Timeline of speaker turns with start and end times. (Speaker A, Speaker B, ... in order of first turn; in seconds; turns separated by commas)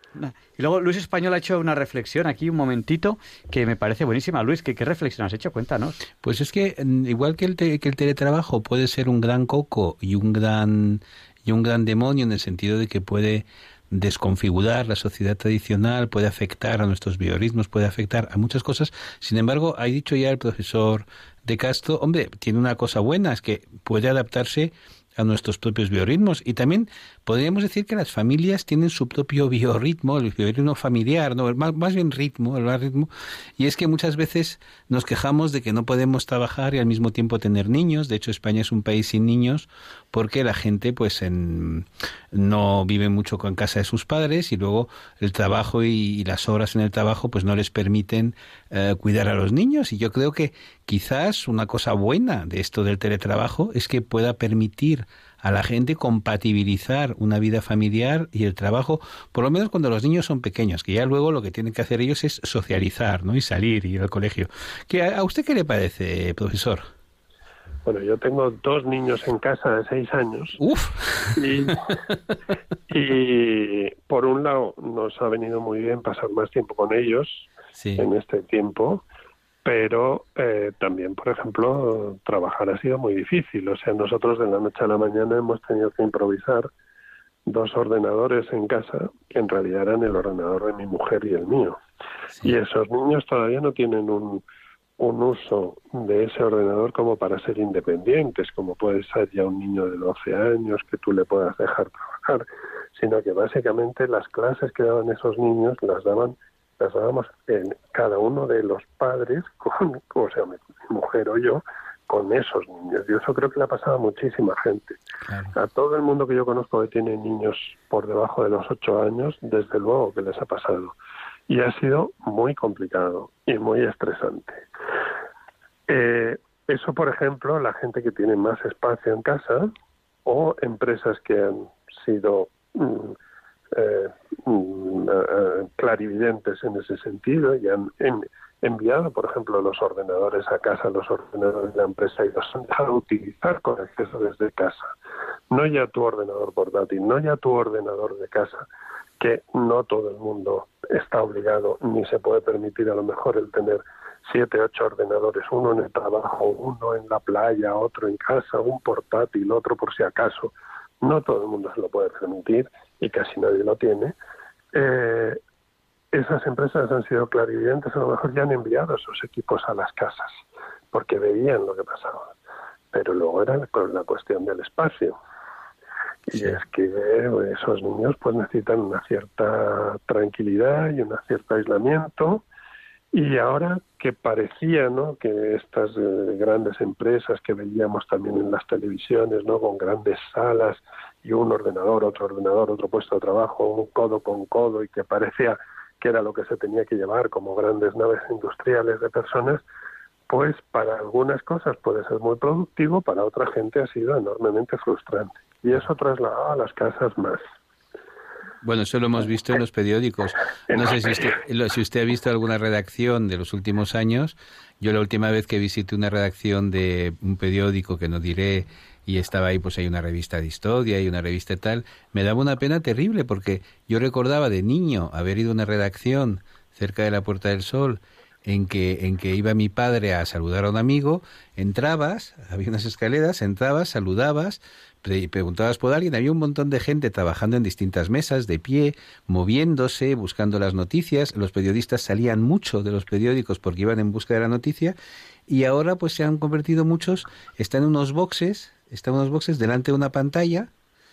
Speaker A: 0.1-6.0, Speaker B: 6.2-66.9, Speaker C: 67.8-70.6, Speaker B: 70.6-71.7, Speaker C: 71.3-71.8, Speaker C: 72.9-79.0, Speaker B: 77.8-78.0, Speaker C: 79.6-86.7, Speaker C: 87.5-91.8, Speaker C: 92.4-94.4, Speaker C: 95.0-115.0, Speaker B: 115.2-115.5, Speaker C: 115.5-121.0, Speaker C: 121.5-124.6, Speaker C: 125.9-129.7, Speaker C: 130.2-133.1, Speaker C: 133.7-144.9, Speaker C: 145.5-148.7, Speaker C: 149.2-164.1, Speaker C: 164.7-165.4, Speaker C: 166.1-170.4, Speaker C: 170.9-172.3, Speaker C: 172.9-175.2, Speaker C: 176.3-182.4, Speaker C: 183.1-199.6, Speaker C: 200.3-207.4, Speaker B: 208.6-244.9, Speaker C: 210.7-211.2, Speaker B: 245.5-250.7